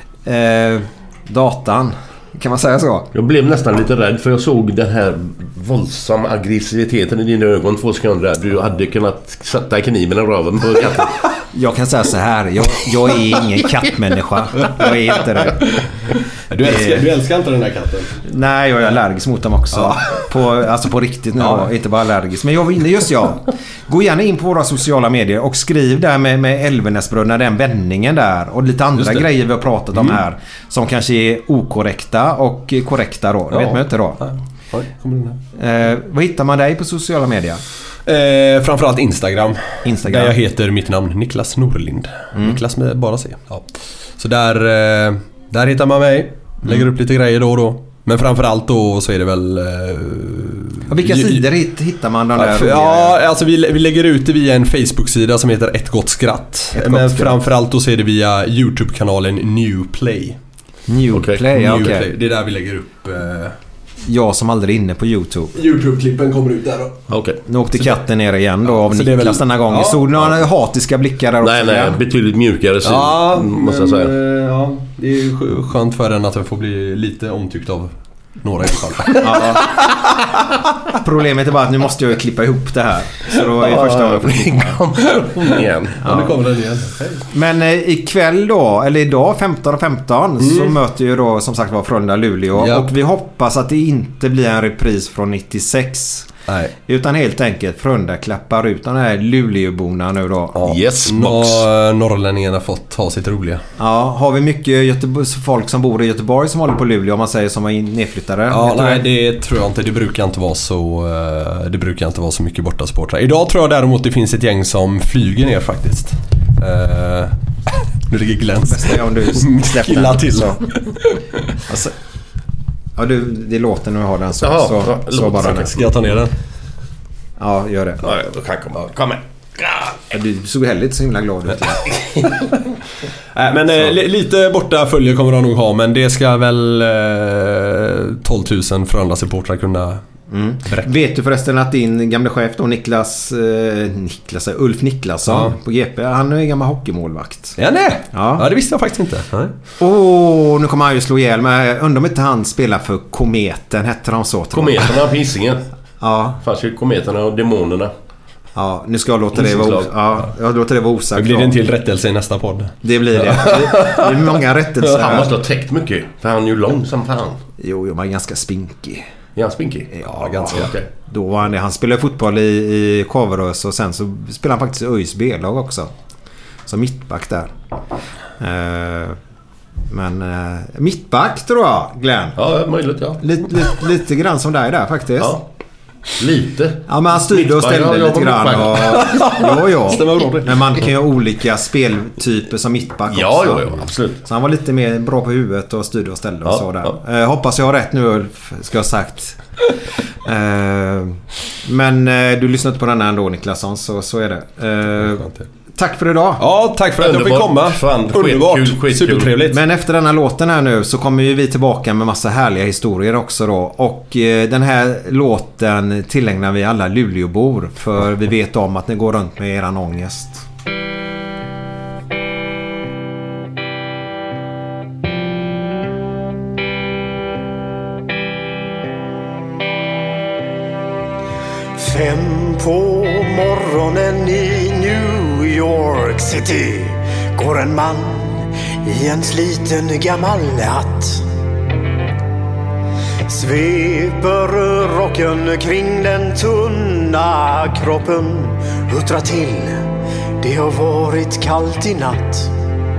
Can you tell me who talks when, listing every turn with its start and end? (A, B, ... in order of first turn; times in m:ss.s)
0:00.2-0:03.1 A
0:03.1-0:11.2 B
0:11.5-0:15.8 A
0:15.8-0:18.1 C
0:16.6-0:17.1 A
0:18.2-0:34.2 A
0:19.8-0:20.2 C
0:21.4-0:21.7 C
0:29.0-0:29.3 C
0:33.5-0:35.4 C
0:35.6-0:37.6 A
0:38.1-0:43.7 C
0:39.8-0:40.4 A
0:42.3-0:42.6 A
0:44.2-0:51.5 C
0:50.9-0:53.2 A
0:52.4-1:00.4 C
0:56.7-0:57.4 A
1:00.9-1:02.1 A
1:01.1-1:01.9 B
1:01.5-1:03.6 C
1:04.0-1:05.5 A
1:05.6-1:07.1 C
1:07.1-1:07.4 B
1:07.5-1:12.0 A
1:08.7-1:10.2 C
1:11.4-1:14.2 B
1:12.8-1:20.0 C
1:19.2-1:19.8 A
1:20.9-1:24.8 A
1:23.6-1:26.0 B
1:25.2-1:27.2 C
1:26.0-1:26.4 A
1:27.3-1:36.3 A
1:30.4-1:30.8 C
1:32.6-1:32.9 C
1:36.5-1:36.7 C
1:36.9-1:40.6 A
1:40.6-1:43.6 C
1:40.6-1:41.6 B
1:43.8-1:49.1 A
1:48.5-2:01.2 C
1:58.7-2:00.6 A
2:01.7-2:02.0 A
2:03.0-2:05.7 A
2:04.4-2:05.8 B
2:05.4-2:06.3 C
2:07.4-2:08.2 A
2:08.0-2:10.0 B
2:10.1-2:11.9 A
2:13.4-2:20.0 C
2:20.3-2:27.6 A
2:25.3-2:25.6 C
2:27.6-2:29.5 C
2:28.1-2:28.5 A
2:29.8-2:35.1 A
2:34.5-2:35.6 B
2:36.0-2:36.4 A
2:36.4-2:37.9 B
2:38.6-2:41.6 A
2:39.4-2:39.9 B
2:41.2-2:44.2 C
2:42.8-2:45.3 A
2:44.9-2:47.4 B
2:47.6-2:49.1 A
2:49.4-2:50.9 B
2:49.9-2:55.9 A
2:50.0-2:50.7 C
2:56.7-2:57.5 A
2:58.4-2:59.2 A
2:59.9-3:02.4 A
3:02.4-3:03.4 B
3:03.2-3:05.4 A
3:06.1-3:09.1 B
3:06.9-3:19.4 A
3:08.9-3:10.4 C
3:13.1-3:14.2 B
3:16.5-3:17.0 B
3:20.2-3:26.4 A
3:25.1-3:25.5 C
3:26.4-3:29.6 C
3:27.0-3:29.4 B
3:29.5-3:40.4 A
3:51.9-3:52.8 D
3:53.5-3:54.1 D
3:54.7-3:55.0 D
3:55.7-3:56.7 D
3:57.4-3:57.9 D
3:59.0-4:00.2 D
4:00.3-4:00.6 E
4:03.9-4:05.1 E
4:05.4-4:06.4 D
4:05.8-4:06.9 E
4:07.8-4:08.4 E
4:09.1-4:09.5 E
4:10.8-4:12.0 E
4:11.1-4:11.4 D